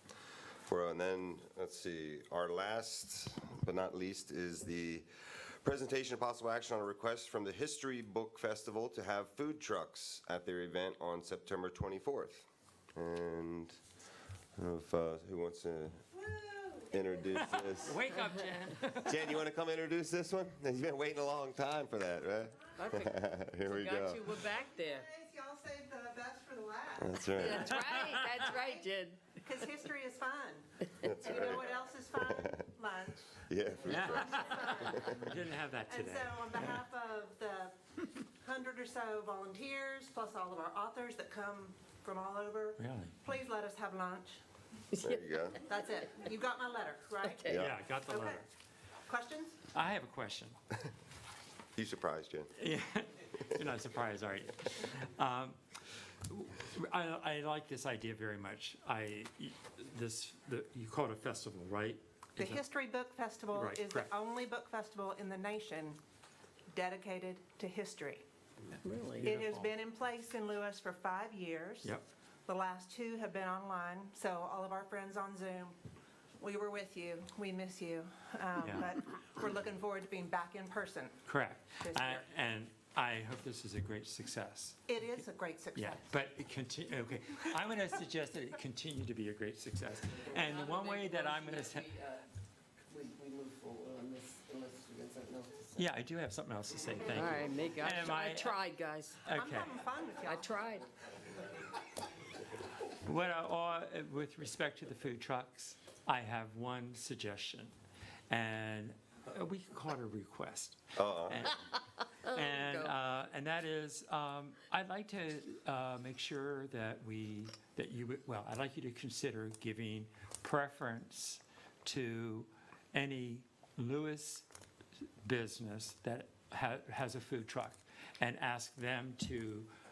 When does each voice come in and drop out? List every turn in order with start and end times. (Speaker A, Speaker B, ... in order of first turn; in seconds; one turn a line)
Speaker A: 0.7-13.8
Speaker A: 14.6-16.0
Speaker B: 16.1-17.6
Speaker A: 16.9-18.1
Speaker C: 17.3-19.4
Speaker A: 19.0-24.3
Speaker D: 22.8-25.1
Speaker B: 24.5-28.9
Speaker A: 27.0-27.6
Speaker C: 27.4-28.4
Speaker D: 27.4-29.4
Speaker B: 29.4-33.3
Speaker A: 31.0-31.6
Speaker A: 33.5-34.4
Speaker C: 33.8-36.8
Speaker B: 33.9-44.4
Speaker A: 34.9-35.1
Speaker C: 42.8-43.2
Speaker A: 45.0-45.6
Speaker B: 45.6-48.4
Speaker A: 47.5-47.8
Speaker C: 47.5-48.5
Speaker B: 49.0-49.6
Speaker C: 49.7-50.5
Speaker A: 51.8-52.5
Speaker C: 52.6-55.6
Speaker C: 56.3-62.6
Speaker B: 62.4-66.0
Speaker C: 63.5-64.1
Speaker B: 66.7-68.2
Speaker D: 68.8-69.2
Speaker C: 69.2-69.8
Speaker B: 69.2-71.9
Speaker B: 72.5-75.8
Speaker B: 76.4-81.2
Speaker C: 78.6-78.9
Speaker C: 81.2-85.2
Speaker B: 81.8-82.3
Speaker B: 84.9-86.0
Speaker C: 85.7-92.0
Speaker D: 90.8-92.2
Speaker D: 92.9-95.8
Speaker C: 95.8-98.6
Speaker D: 97.2-99.2
Speaker C: 99.2-99.9
Speaker B: 99.3-100.7
Speaker D: 100.3-100.9
Speaker C: 102.9-107.7
Speaker C: 108.3-124.5
Speaker A: 111.0-111.5
Speaker C: 125.2-129.7